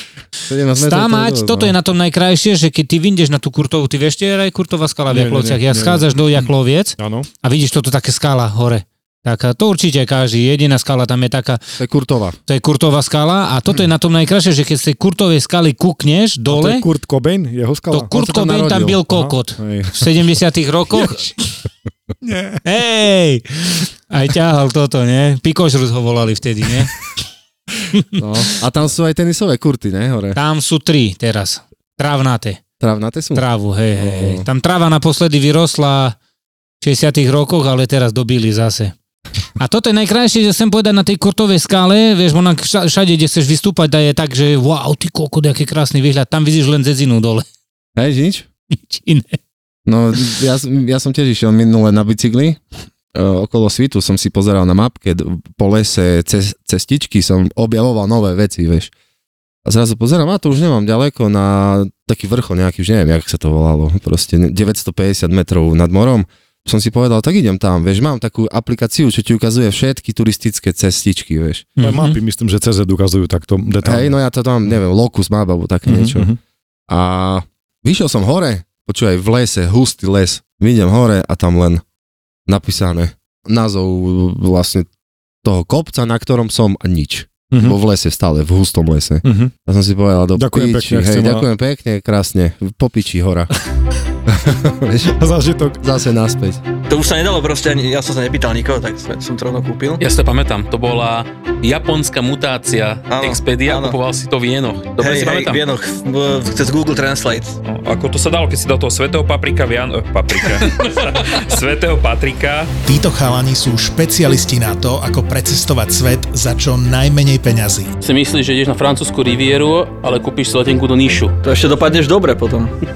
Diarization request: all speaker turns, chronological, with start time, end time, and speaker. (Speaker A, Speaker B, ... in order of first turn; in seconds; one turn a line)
Speaker A: 0.5-1.7
Speaker B: 0.8-11.6
Speaker C: 5.1-5.6
Speaker A: 5.7-6.0
Speaker C: 7.0-7.3
Speaker A: 11.8-12.4
Speaker B: 12.4-16.9
Speaker C: 16.5-18.0
Speaker B: 17.9-21.5
Speaker A: 18.1-20.1
Speaker C: 22.3-22.6
Speaker B: 22.6-26.9
Speaker A: 28.2-30.4
Speaker B: 30.3-32.6
Speaker A: 32.8-34.5
Speaker B: 33.3-36.2
Speaker B: 36.8-38.9
Speaker B: 39.6-47.4
Speaker A: 48.0-48.5
Speaker B: 48.9-49.4
Speaker A: 49.9-52.6
Speaker A: 53.1-58.9
Speaker A: 59.6-71.7
Speaker B: 71.8-72.2
Speaker C: 71.8-74.1
Speaker A: 73.8-76.3
Speaker C: 75.9-76.3
Speaker A: 76.9-81.8
Speaker A: 82.5-84.9
Speaker A: 85.4-93.5
Speaker C: 89.2-89.5
Speaker C: 90.4-91.5
Speaker A: 94.3-95.2
Speaker C: 95.2-95.8
Speaker A: 95.8-96.6
Speaker D: 96.9-100.1
Speaker E: 100.0-105.6
Speaker D: 103.1-104.0
Speaker D: 105.0-107.5
Speaker F: 107.6-112.7
Speaker E: 110.3-110.9
Speaker G: 112.8-117.9
Speaker E: 118.0-121.3
Speaker D: 121.4-122.7